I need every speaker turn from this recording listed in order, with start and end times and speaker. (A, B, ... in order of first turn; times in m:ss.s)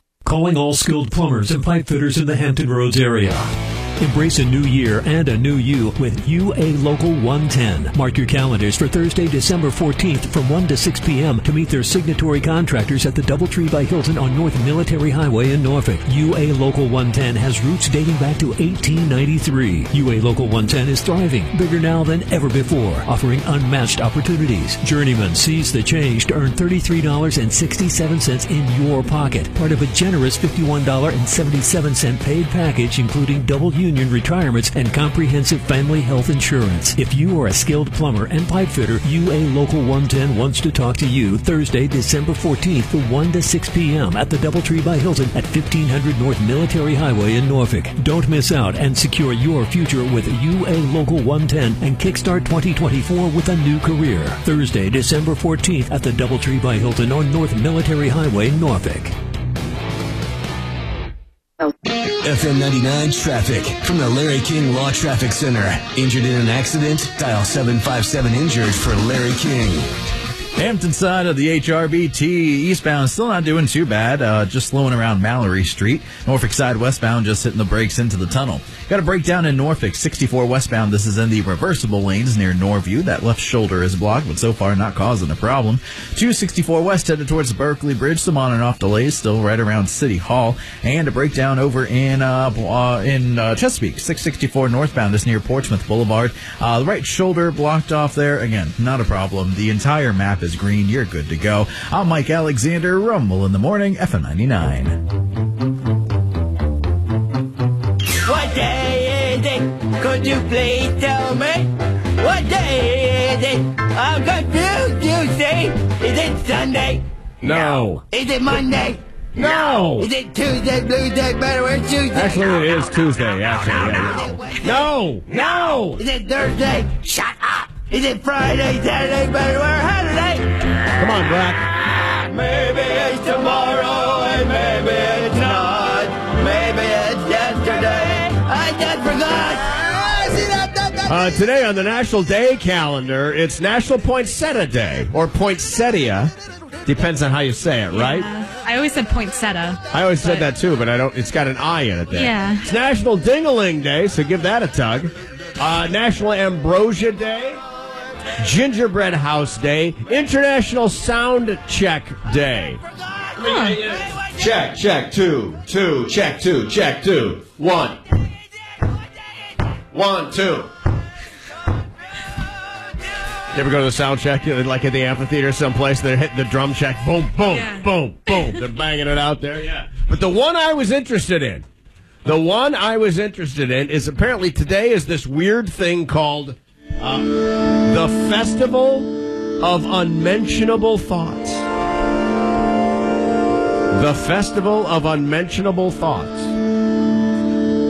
0:00.2-0:59.1 A
1:02.2-1:09.9 B
1:10.6-1:45.0 C
1:48.2-2:02.8 D
1:57.4-1:58.0 E
1:59.4-2:00.1 E
2:02.1-2:06.0 E
2:03.5-2:10.5 D
2:11.0-2:11.6 E
2:12.1-2:21.0 D
2:21.0-2:26.3 E
2:26.8-2:28.3 E
2:27.9-2:30.5 F
2:29.9-2:37.6 E
2:32.1-2:32.7 F
2:38.4-2:42.8 E
2:43.4-2:48.0 E
2:43.4-2:43.8 F
2:49.9-2:50.7 E
2:53.5-3:01.6 E
2:57.5-2:57.8 F
3:02.2-3:11.6 E
3:13.9-3:16.5 E